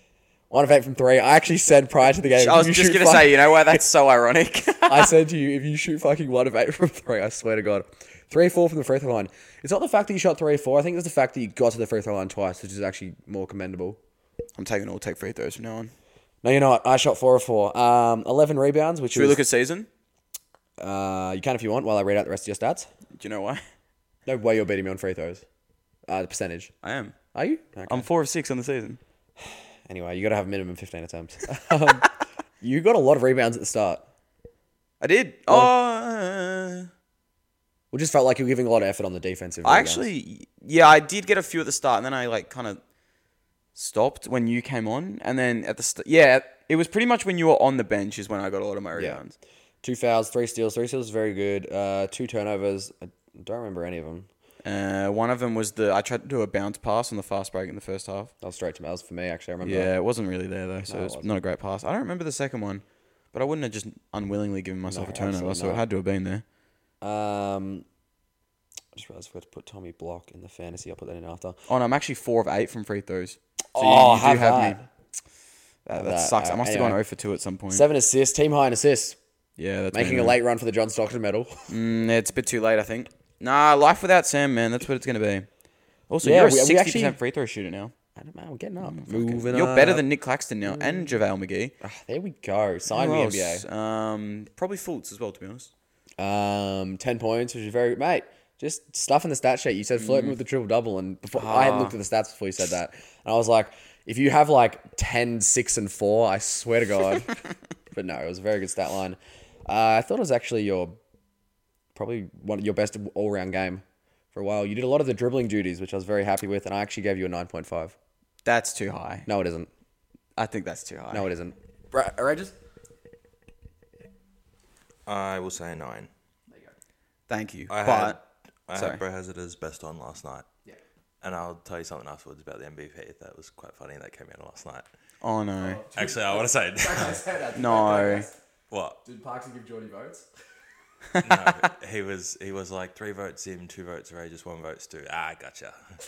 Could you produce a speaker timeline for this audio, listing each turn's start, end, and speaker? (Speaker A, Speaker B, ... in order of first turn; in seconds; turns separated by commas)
Speaker A: 0.5-3.8, Speaker B: 2.3-5.1, Speaker A: 4.9-14.0, Speaker B: 14.6-15.9, Speaker A: 16.4-19.4, Speaker B: 19.1-19.9, Speaker A: 20.8-22.9, Speaker B: 23.1-23.6, Speaker A: 24.2-25.4, Speaker A: 26.1-26.7, Speaker B: 26.8-27.2, Speaker A: 27.3-28.1, Speaker B: 27.9-29.0, Speaker A: 29.4-34.0, Speaker B: 35.0-36.9, Speaker A: 37.9-40.1, Speaker B: 39.6-42.8, Speaker B: 43.7-49.4, Speaker A: 49.8-54.3, Speaker B: 54.6-58.3, Speaker A: 58.4-59.9, Speaker B: 59.6-66.4, Speaker A: 60.9-61.3, Speaker A: 64.9-65.8, Speaker A: 67.0-67.8, Speaker A: 68.9-71.6, Speaker B: 71.7-74.8, Speaker A: 73.7-74.8, Speaker B: 75.8-77.8, Speaker A: 76.0-77.0, Speaker A: 77.7-79.2, Speaker B: 79.6-80.4, Speaker A: 79.9-81.7, Speaker B: 81.7-85.5, Speaker B: 86.1-87.9, Speaker A: 86.2-87.2, Speaker A: 88.2-90.0, Speaker B: 88.8-91.7, Speaker A: 91.8-93.6, Speaker B: 92.9-95.7, Speaker A: 96.2-107.3, Speaker B: 100.0-100.3, Speaker B: 101.3-102.0, Speaker A: 107.9-111.0, Speaker A: 111.9-117.9, Speaker B: 118.4-119.3, Speaker A: 119.3-119.7, Speaker B: 120.3-121.3, Speaker A: 121.1-122.5, Speaker C: 125.0-126.1, Speaker B: 127.3-128.2, Speaker C: 127.7-130.5, Speaker B: 128.7-129.0, Speaker C: 131.2-134.9, Speaker B: 135.2-135.8, Speaker A: 135.6-138.3, Speaker C: 135.9-137.3, Speaker B: 137.5-138.3, Speaker C: 138.7-139.0, Speaker A: 139.0-140.2, Speaker B: 141.1-141.5, Speaker C: 141.2-145.8